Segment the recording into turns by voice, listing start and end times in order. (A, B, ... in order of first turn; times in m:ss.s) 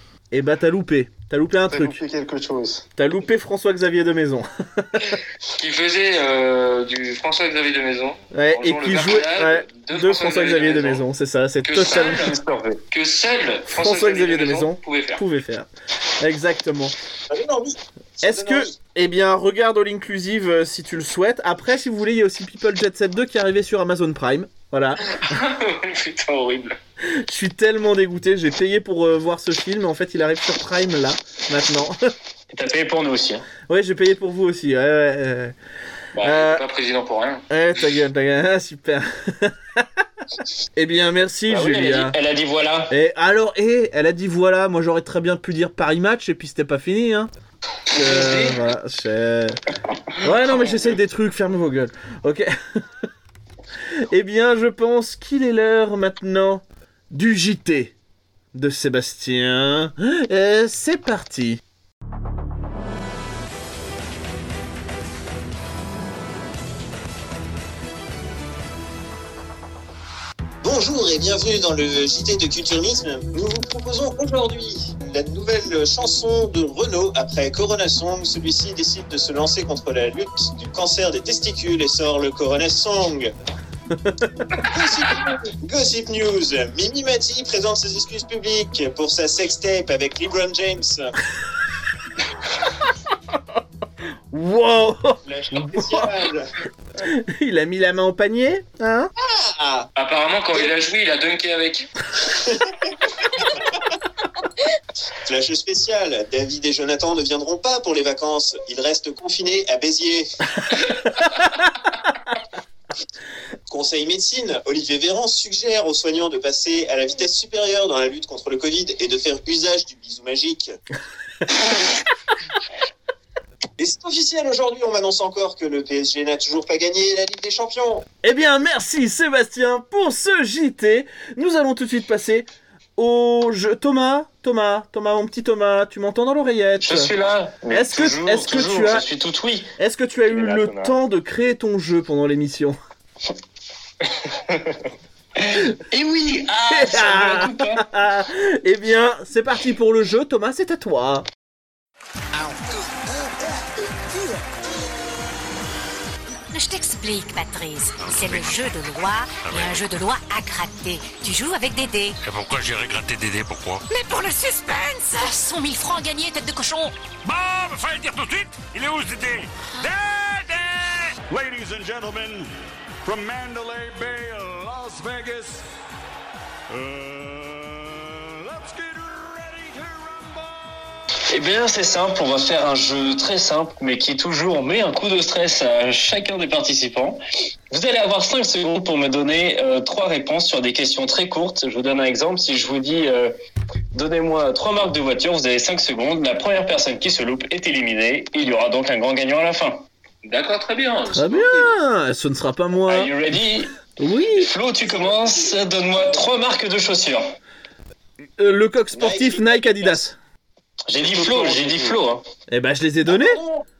0:00.3-0:02.0 A
0:01.7-0:02.8 B
0:03.0-0:05.2 A
0:05.6-0:11.0 C
0:08.3-0:12.2 A
0:11.6-0:12.4 C
0:12.9-0:15.2 C
0:13.7-0:15.7 A
0:16.2-0:16.9 A
0:17.3-0:18.7 D
0:18.2-0:25.2 A
0:25.1-0:26.8 C
0:27.2-0:32.0 A
0:32.5-0:33.4 E
0:33.7-0:35.5 A
0:36.1-0:37.4 C
0:36.2-0:36.6 A
0:37.5-0:39.9 A
0:40.8-0:42.2 A
0:41.5-0:42.9 E
0:42.9-0:47.3 A
0:47.9-0:49.6 A
0:48.0-0:48.4 C
0:50.2-0:52.8 A
0:53.9-0:57.9 A
0:58.5-1:01.6 A
1:10.6-1:23.3 D
1:24.6-1:31.1 D
1:34.3-1:36.2 A
1:35.2-1:36.5 D
1:37.0-1:39.1 A
1:39.2-1:39.9 D
1:40.0-1:41.9 C
1:42.3-1:42.8 D
1:45.2-1:50.9 D
1:53.7-2:00.7 D
2:03.8-2:08.0 D
2:08.2-2:17.1 A
2:16.8-2:19.7 E
2:17.7-2:19.1 A
2:19.8-2:22.8 A
2:20.3-2:21.0 B
2:24.2-2:24.8 B
2:25.4-2:27.8 E
2:26.7-2:31.3 A
2:36.5-2:42.2 F
2:38.0-2:38.7 G
2:39.4-2:39.8 G
2:42.2-2:43.8 G
2:43.9-2:46.9 F
2:47.2-2:52.5 G
2:53.0-2:55.6 G
2:56.7-3:00.8 G
3:01.3-3:13.3 E
3:13.9-3:19.8 E
3:20.2-3:21.7 C
3:21.1-3:23.1 A
3:22.9-3:23.7 E
3:24.0-3:24.5 A
3:24.4-3:27.3 E
3:24.8-3:26.2 D
3:28.4-3:30.2 A
3:28.9-3:30.1 D
3:30.9-3:32.2 E
3:31.0-3:32.0 B
3:32.5-3:33.4 A
3:33.0-3:33.6 D